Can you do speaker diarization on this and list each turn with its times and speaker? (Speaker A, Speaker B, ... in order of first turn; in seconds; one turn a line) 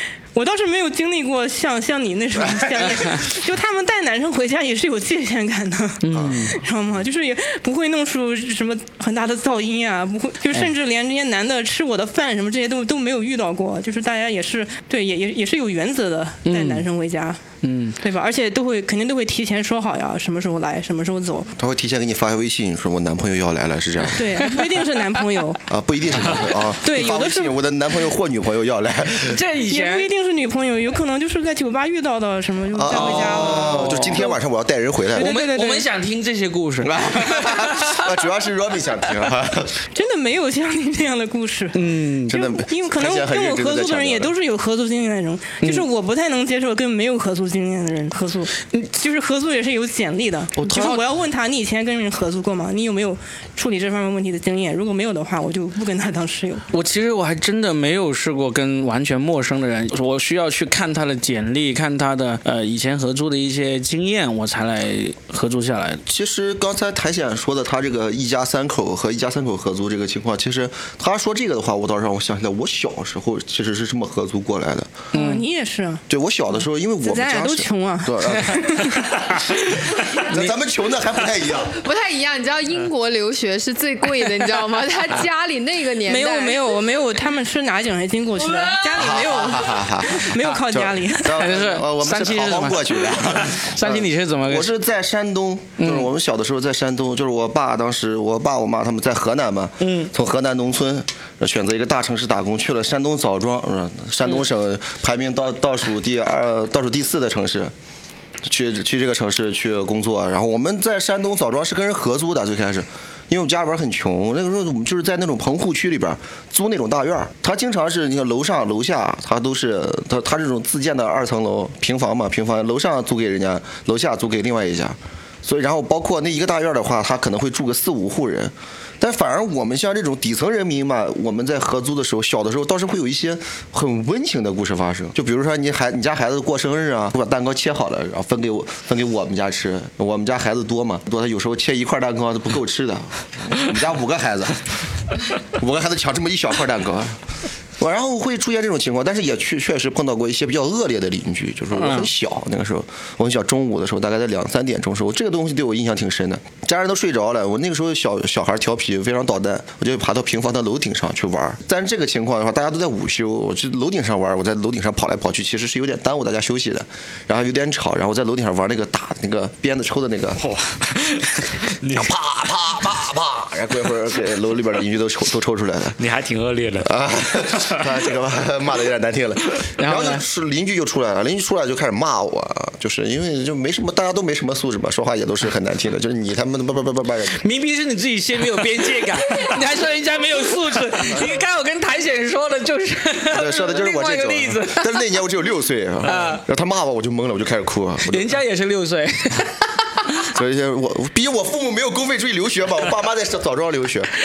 Speaker A: 0.3-17.4
Speaker B: 2.4-2.9
Speaker C: 6.0-6.6
Speaker B: 6.2-6.4
Speaker C: 16.4-16.9
Speaker C: 17.6-18.0
Speaker A: 18.0-21.5
Speaker B: 21.6-24.2
Speaker A: 24.1-25.6
Speaker B: 25.7-29.4
Speaker A: 26.8-27.5
Speaker C: 29.2-30.1
Speaker A: 29.7-34.4
Speaker B: 32.7-35.3
Speaker C: 32.9-34.3
Speaker A: 35.2-35.9
Speaker C: 35.2-38.1
Speaker B: 36.8-39.8
Speaker A: 39.9-56.7
Speaker C: 41.7-42.4
Speaker B: 42.3-44.3
Speaker B: 50.6-50.9
Speaker C: 50.8-51.0
Speaker C: 56.7-66.0
Speaker B: 66.1-75.1
Speaker C: 75.1-75.4
Speaker A: 75.1-76.0
Speaker B: 76.1-78.7
Speaker A: 77.0-79.0
Speaker C: 78.5-79.4
Speaker C: 80.2-80.5
Speaker B: 80.2-81.8
Speaker D: 81.6-86.8
Speaker A: 86.0-91.4
Speaker B: 89.0-107.7
Speaker C: 91.3-94.7
Speaker C: 95.8-96.1
Speaker C: 99.8-100.1
Speaker B: 108.5-144.7
Speaker B: 145.5-147.2
Speaker B: 147.8-170.4
Speaker C: 151.8-152.1
Speaker E: 170.4-172.2
Speaker B: 171.9-176.0
Speaker E: 176.0-177.9
Speaker B: 176.8-187.4
Speaker C: 179.8-180.2
Speaker C: 187.4-195.0
Speaker B: 193.3-198.3
Speaker C: 196.0-196.4
Speaker C: 198.1-199.6
Speaker B: 200.3-204.1